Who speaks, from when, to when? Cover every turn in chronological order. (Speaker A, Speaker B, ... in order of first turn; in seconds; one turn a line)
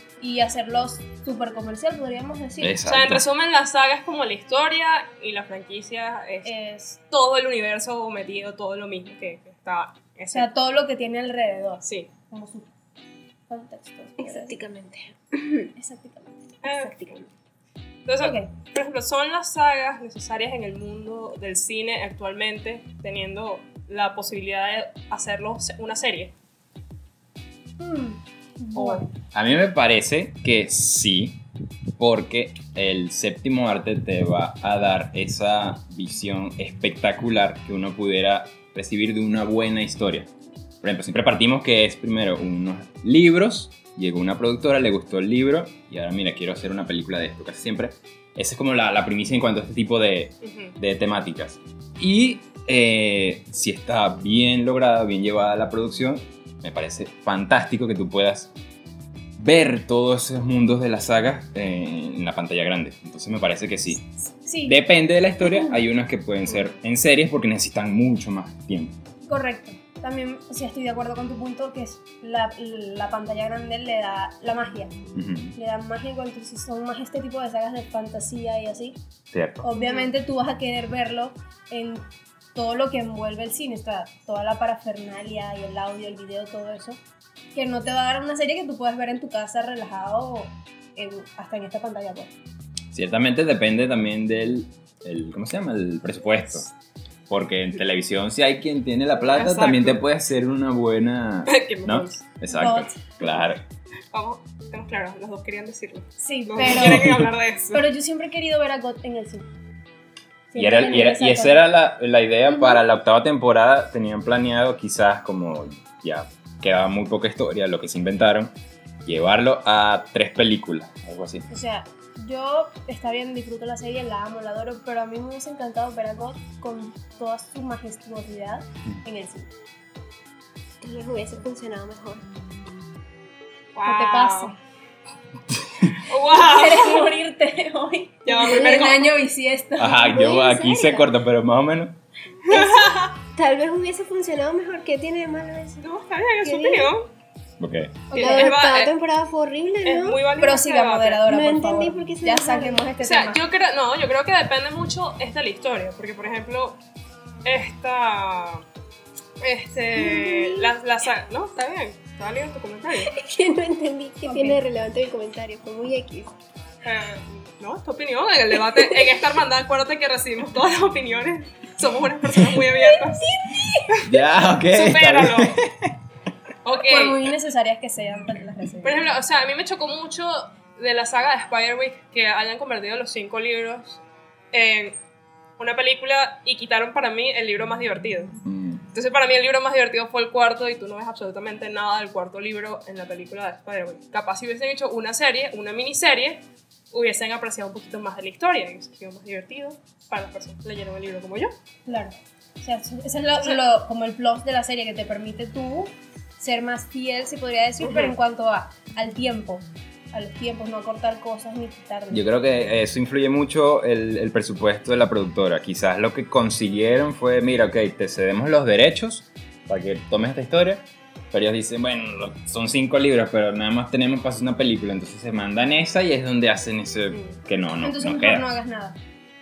Speaker A: 0.2-2.8
Speaker B: 2.6-3.2
Speaker C: 2.8-10.5
Speaker A: 6.4-7.0
Speaker A: 10.3-12.7
Speaker C: 11.8-12.1
Speaker A: 13.5-14.5
Speaker D: 14.2-15.7
Speaker A: 15.7-16.3
Speaker C: 16.6-17.2
Speaker D: 16.6-17.3
Speaker C: 18.1-26.3
Speaker A: 18.2-18.5
Speaker A: 27.8-29.1
Speaker C: 28.8-29.1
Speaker B: 29.3-31.4
Speaker B: 32.0-40.3
Speaker B: 40.8-58.5
Speaker C: 50.4-50.8
Speaker B: 59.4-64.0
Speaker A: 64.4-64.8
Speaker B: 64.6-69.0
Speaker A: 69.2-74.9
Speaker B: 75.1-75.5
Speaker A: 75.5-79.0
Speaker B: 79.3-79.7
Speaker A: 79.6-87.0
Speaker C: 79.8-80.1
Speaker A: 87.5-92.3
Speaker B: 92.9-96.7
Speaker B: 97.3-103.6
Speaker C: 99.3-100.0
Speaker C: 101.5-102.2
Speaker A: 102.5-103.0
Speaker C: 104.1-107.9
Speaker A: 106.2-107.2
Speaker B: 106.6-107.3
Speaker A: 107.7-109.5
Speaker A: 110.5-111.6
Speaker B: 110.5-118.5
Speaker B: 119.0-121.4
Speaker A: 121.5-129.5
Speaker D: 130.8-132.2
Speaker C: 133.7-134.5
Speaker A: 133.8-134.5
Speaker B: 135.6-136.0
Speaker C: 136.1-137.1
Speaker A: 136.3-140.1
Speaker C: 138.2-139.1
Speaker D: 138.4-139.0
Speaker B: 139.8-142.0
Speaker D: 140.0-141.1
Speaker D: 142.5-145.8
Speaker C: 142.5-143.1
Speaker C: 145.8-147.1
Speaker D: 146.4-146.9
Speaker B: 147.6-148.0
Speaker A: 148.1-148.5
Speaker C: 148.1-148.9
Speaker D: 148.1-150.3
Speaker C: 149.8-151.3
Speaker A: 150.4-153.4
Speaker D: 151.2-152.9
Speaker C: 153.0-156.8
Speaker C: 157.4-158.6
Speaker C: 159.4-163.1
Speaker D: 159.9-160.7
Speaker D: 163.0-166.3
Speaker A: 164.2-164.6
Speaker C: 166.8-173.3
Speaker D: 168.6-169.1
Speaker C: 173.8-175.6
Speaker B: 174.0-176.0
Speaker C: 176.6-177.3
Speaker A: 176.9-179.1
Speaker C: 178.8-184.0
Speaker C: 184.5-185.0
Speaker C: 185.6-188.3
Speaker B: 188.4-188.8
Speaker C: 188.9-201.5
Speaker A: 201.8-212.3
Speaker C: 207.8-208.1
Speaker B: 212.1-228.5
Speaker A: 227.8-229.0